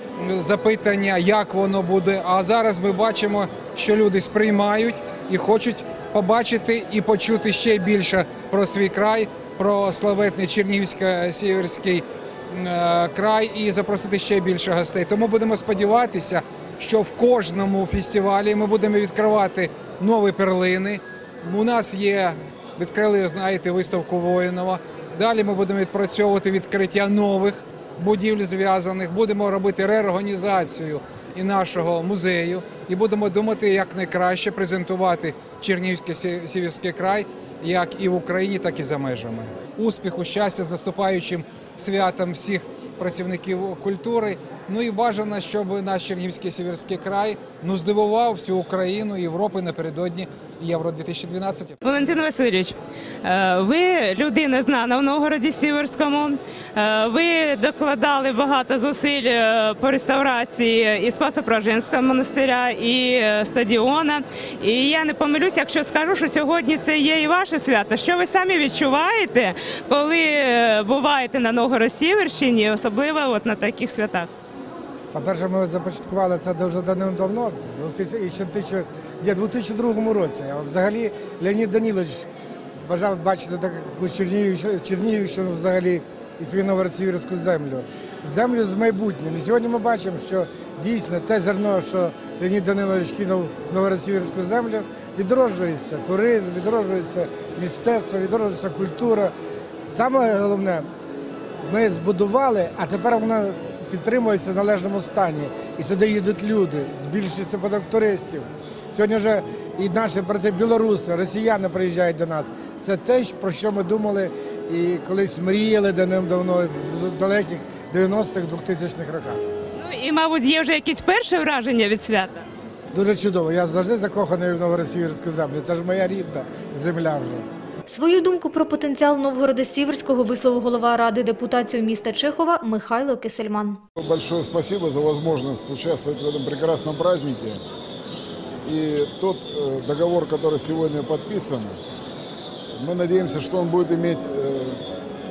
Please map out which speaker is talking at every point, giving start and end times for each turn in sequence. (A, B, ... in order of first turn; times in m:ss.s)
0:00.2-0:51.8 A
0:51.8-1:14.3 B
1:15.1-1:22.2 C
1:22.8-1:39.3 C
1:39.9-1:40.9 C
1:41.6-1:59.4 C
1:59.7-2:02.4 B
2:02.9-2:07.4 C
2:07.9-2:13.8 D
2:14.0-2:17.6 E
2:18.6-2:21.8 E
2:22.8-2:24.8 E